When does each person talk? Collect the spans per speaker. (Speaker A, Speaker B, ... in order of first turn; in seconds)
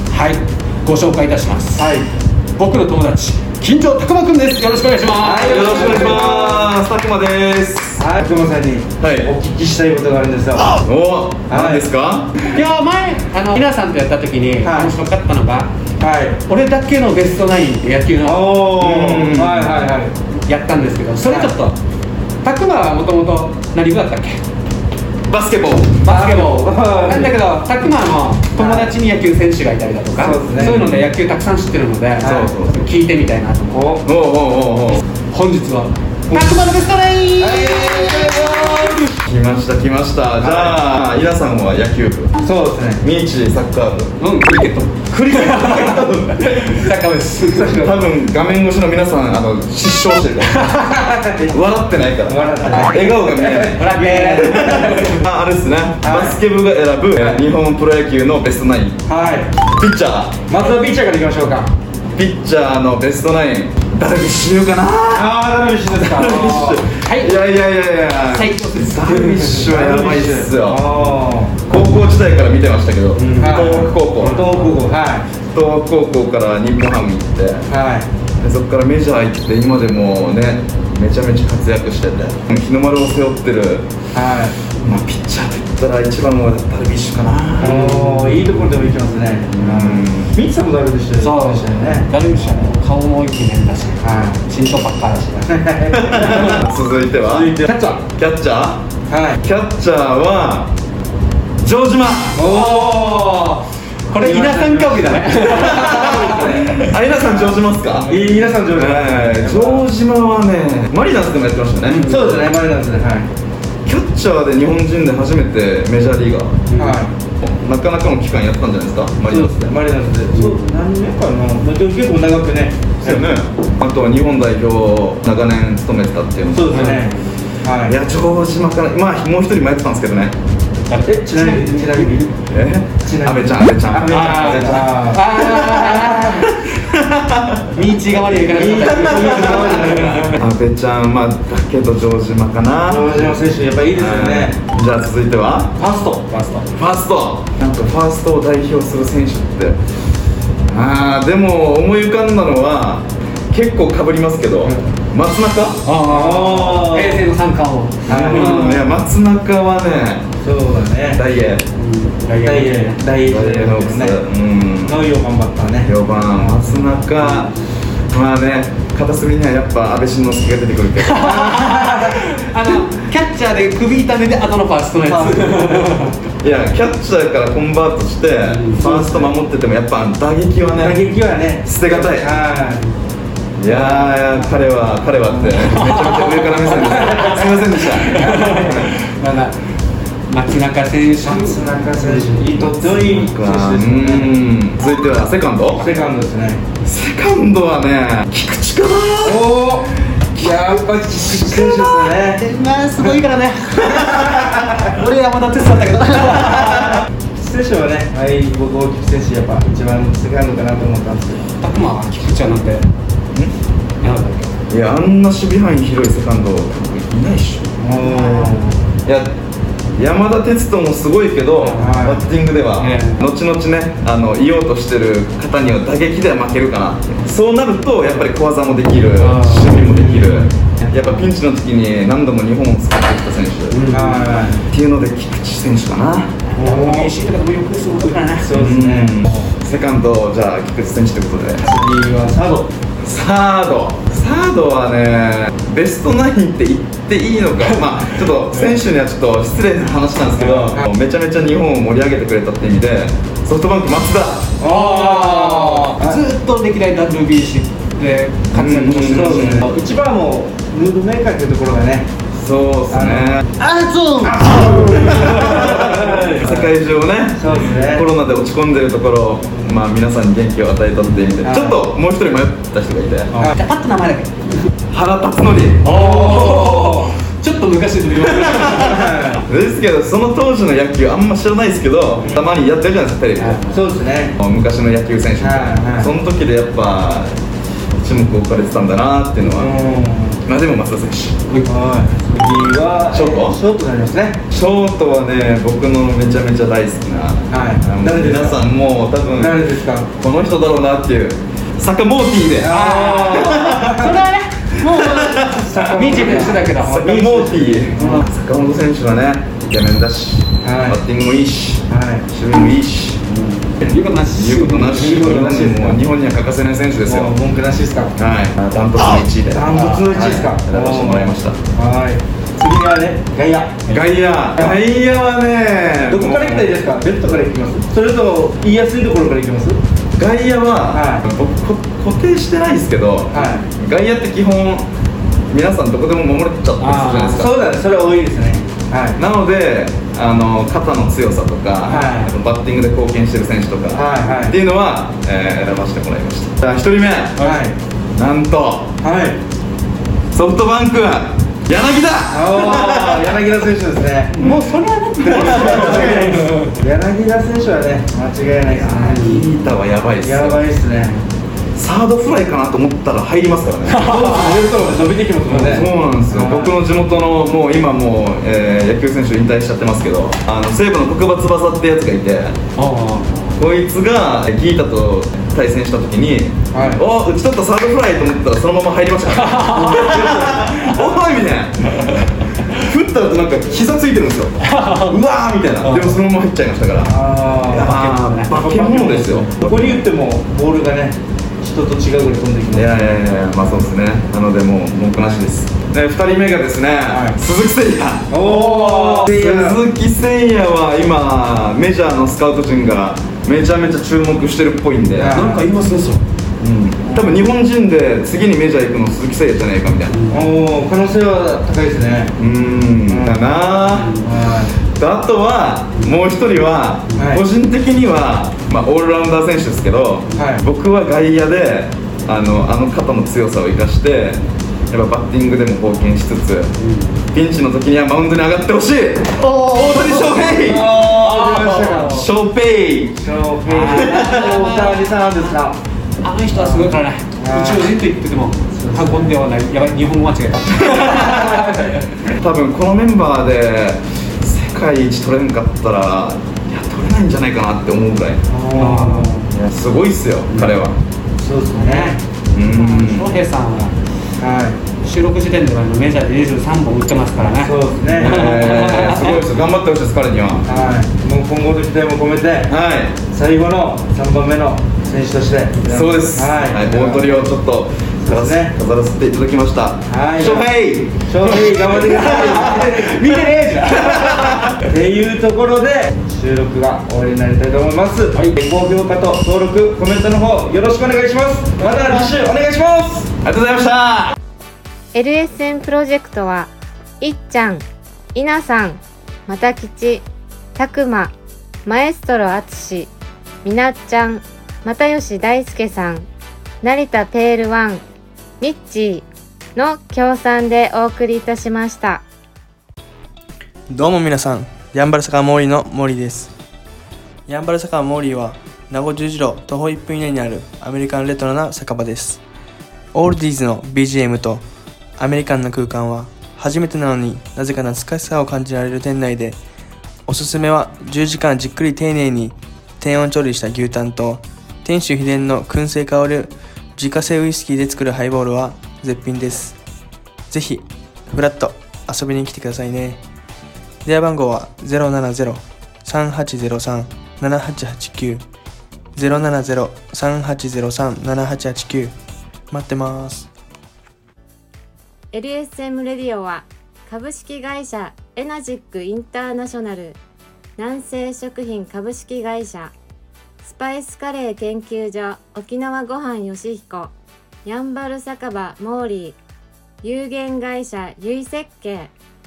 Speaker A: 0.1-1.9, 2.6-6.2, 12.4-15.7, 16.5-18.5, 20.5-21.8, 22.4-24.4, 26.0-34.0, 35.0-39.1, 44.2-47.9, 53.7-55.2, 67.0-67.4, 68.3-69.3, 73.2-74.8, 87.6-89.2, 91.2-95.5, 102.4-106.9, 111.8-112.3, 116.7-117.0, 120.3-120.8, 126.7-127.2, 130.9-132.3, 134.1-136.5, 137.7-140.4, 146.3-146.7, 155.8-158.9, 161.7-163.0, 166.7-167.5, 171.0-176.1, 178.4-179.3, 185.3-189.6, 190.3-192.3, 195.8-196.0, 202.1-207.0, 211.6-212.9, 214.0-214.5, 218.0-218.6, 221.6-222.2, 222.8-223.3, 229.2-230.4, 231.0-231.2, 233.7-234.3, 236.6-238.6, 254.6-259.7, 263.6-266.2, 273.4-274.7, 275.8-279.2, 283.4-283.8, 302.7-307.4, 307.9-308.2, 313.3-315.5, 319.7-320.1, 336.8-337.4, 354.4-356.7, 359.0-359.4, 363.9-364.6, 365.5-365.8, 372.8-373.5, 379.4-380.0, 384.6-385.2, 385.8-386.2, 387.8-388.8, 389.6-389.9, 398.4-399.2, 405.3-406.2, 410.1-410.4, 413.9-414.3, 426.8-427.1, 429.4-432.3, 433.7-435.1, 436.2-441.9, 448.8-449.4, 450.5-450.8, 451.8-453.9, 455.0-459.5, 471.4-474.8
Speaker B: 1.8-2.1, 5.2-6.7, 8.0-10.7, 11.5-11.9, 14.6-14.9, 16.0-16.4, 18.2-20.1, 21.2-21.5, 26.0-27.3, 28.6-28.9, 30.1-30.9, 32.2-32.5, 33.7-34.0, 37.4-38.9, 40.4-40.8, 42.4-43.0, 47.5-47.9, 50.9-51.5, 52.2-55.0, 56.0-56.4, 59.1-59.5, 60.5-61.7, 65.1-66.8, 69.1-71.6, 73.3-75.4, 77.7-78.1, 84.1-84.5, 87.6-92.7, 94.0-94.4, 95.4-96.6, 97.2-98.0, 99.1-99.4, 102.3-103.5, 104.2-105.4, 106.2-107.5, 108.1-109.8, 112.0-113.3, 116.8-117.1, 119.3-123.3, 126.5-128.0, 131.0-132.3, 133.0-135.2, 135.9-136.3, 138.5-140.3, 142.8-144.6, 145.8-146.2, 156.0-157.3, 158.1-158.8, 160.4-161.2, 162.4-164.2, 164.8-166.6, 171.2-172.2, 175.0-175.8, 178.7-179.3, 180.7-182.8, 183.7-184.5, 188.1-188.8, 191.2-194.3, 195.8-196.6, 199.2-202.4, 207.3-211.4, 217.8-218.8, 221.8-222.2, 229.9-230.3, 233.9-234.6, 236.6-237.1, 238.4-239.5, 241.6-242.7, 250.3-250.9, 254.6-256.2, 259.0-262.1, 262.9-263.4, 264.6-266.7, 267.3-268.1, 271.4-271.8, 273.3-273.6, 275.9-277.1, 278.8-279.4, 282.2-282.5, 283.7-284.4, 285.4-286.1, 289.4-290.4, 291.6-294.4, 297.5-298.7, 299.3-300.1, 302.6-304.1, 305.6-308.2, 310.6-311.0, 311.9-312.2, 314.9-316.0, 317.0-318.1, 319.5-323.8, 324.5-324.8, 326.1-329.8, 330.9-331.2, 333.3-333.6, 337.4-339.2, 341.8-342.3, 343.9-344.6, 347.4-347.8, 349.0-349.4, 352.3-354.6, 355.2-359.3, 360.2-361.2, 364.0-366.8, 376.7-377.0, 379.6-381.4, 387.0-387.9, 388.5-393.9, 397.1-397.4, 398.3-399.8, 405.1-405.6, 407.0-407.4, 410.3-412.4, 413.0-413.4, 414.2-414.8, 417.1-417.4, 420.3-420.6, 430.6-432.1, 433.2-435.8, 436.5-437.9, 438.8-439.4, 448.5-449.4, 451.4-452.2, 454.4-454.8, 457.6-458.4, 460.6-467.5, 468.2-468.8, 470.1-473.2, 474.9-483.3
Speaker C: 5.4-8.0, 9.0-9.3, 10.7-12.3, 18.8-19.8, 25.3-26.0, 32.2-32.8, 34.0-35.0, 39.2-42.3, 43.0-44.1, 45.1-46.8, 47.7-50.6, 51.5-53.8, 54.3-59.0, 59.6-60.4, 62.1-65.4, 66.0-70.9, 71.6-74.4, 75.4-77.6, 78.4-83.9, 84.8-87.8, 89.4-90.3, 95.9-98.9, 99.4-100.7, 101.6-102.4, 105.4-108.1, 108.7-112.1, 113.8-116.6, 117.3-119.7, 123.0-126.7, 127.8-130.3, 132.5-134.8, 136.7-137.6, 139.2-143.3, 143.9-145.8, 146.8-149.8, 150.7-155.8, 158.1-160.3, 161.2-161.6, 163.2-165.0, 165.8-167.5, 168.1-171.3, 176.4-181.1, 181.6-182.4, 183.6-188.2, 192.3-195.8, 196.8-199.4, 200.4-200.6, 214.7-217.6, 219.0-219.3, 219.9-233.9, 234.7-236.3, 238.6-241.6, 243.0-254.6, 258.5-259.7, 262.3-263.4, 265.1-273.4, 274.9-275.9, 279.4-283.6, 284.4-287.4, 288.0-289.7, 290.4-291.4, 293.1-293.6, 294.5-302.8, 303.4-304.0, 304.8-305.6, 306.8-313.3, 313.8-317.3, 318.1-321.6, 323.9-326.8, 330.2-334.9, 335.5-337.6, 339.1-347.4, 348.1-348.9, 350.3-353.3, 355.6-356.4, 358.7-360.6, 361.7-364.1, 365.6-372.6, 373.6-387.1, 387.6-389.5, 392.7-405.4, 406.6-410.2, 412.4-414.2, 414.8-426.7, 427.3-433.2, 434.0-434.4, 440.8-441.5, 442.4-448.4, 449.5-451.0, 452.5-453.3, 458.2-460.6, 462.7-463.2, 465.9-471.2, 474.2-474.8, 483.4-484.4
Speaker D: 485.1-491.3, 491.9-493.1, 493.6-496.3, 496.8-498.0, 498.6-502.2, 545.3-550.2, 550.8-552.9, 553.6-557.1, 557.6-559.4, 560.0-562.1
Speaker E: 503.9-506.5, 507.5-512.4, 513.1-514.6, 515.2-519.6, 520.2-529.8, 530.5-533.2, 534.0-538.4, 539.1-542.1, 542.7-543.5